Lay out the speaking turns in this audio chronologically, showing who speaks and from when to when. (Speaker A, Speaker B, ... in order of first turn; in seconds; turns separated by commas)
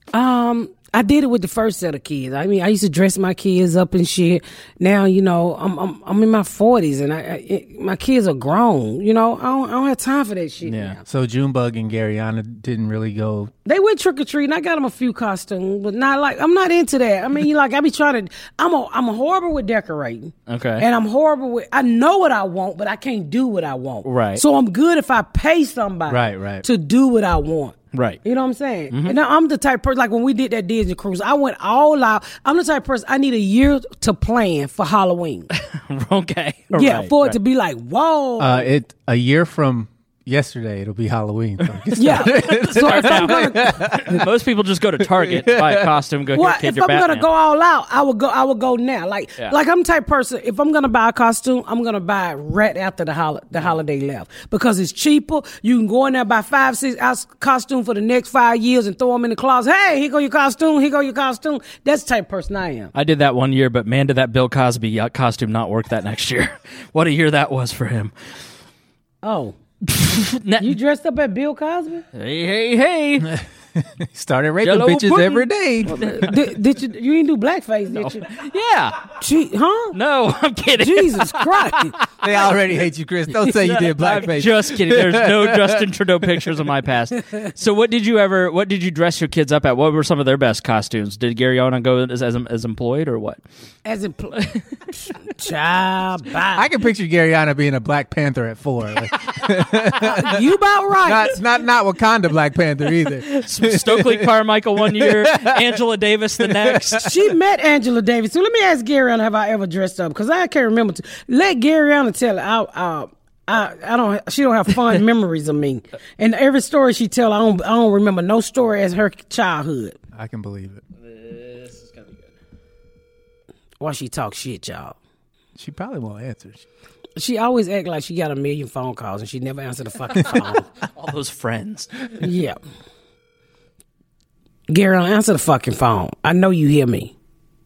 Speaker A: 0.1-11.0, Speaker B: 10.7-11.0, Speaker C: 11.1-13.5, Speaker A: 13.7-35.5, Speaker B: 20.5-20.9, Speaker B: 24.0-24.4, Speaker C: 26.1-26.6, Speaker B: 27.9-28.2, Speaker B: 28.9-29.2, Speaker B: 35.6-37.4, Speaker A: 36.7-38.7, Speaker C: 38.4-44.3, Speaker B: 41.7-47.2, Speaker A: 42.0-43.7, Speaker C: 45.0-45.9, Speaker A: 46.4-62.9, Speaker B: 62.9-68.1, Speaker A: 69.2-69.5, Speaker B: 69.9-70.7, Speaker A: 70.6-72.0, Speaker B: 72.1-73.3, Speaker C: 73.2-76.0, Speaker B: 74.6-76.3, Speaker A: 75.9-78.3, Speaker B: 77.9-79.0, Speaker A: 79.2-80.0, Speaker B: 79.9-82.0, Speaker A: 80.8-81.9, Speaker C: 82.2-85.9, Speaker B: 83.5-93.4, Speaker A: 93.8-96.7, Speaker C: 96.5-100.4, Speaker A: 100.1-101.4, Speaker C: 101.0-105.6, Speaker B: 103.3-107.1, Speaker C: 106.4-107.1, Speaker A: 107.0-120.0, Speaker C: 120.1-120.8, Speaker B: 121.1-122.2, Speaker A: 123.8-125.0, Speaker C: 125.6-126.7, Speaker A: 127.2-130.7, Speaker B: 130.8-132.0, Speaker A: 132.2-132.6, Speaker A: 134.7-137.1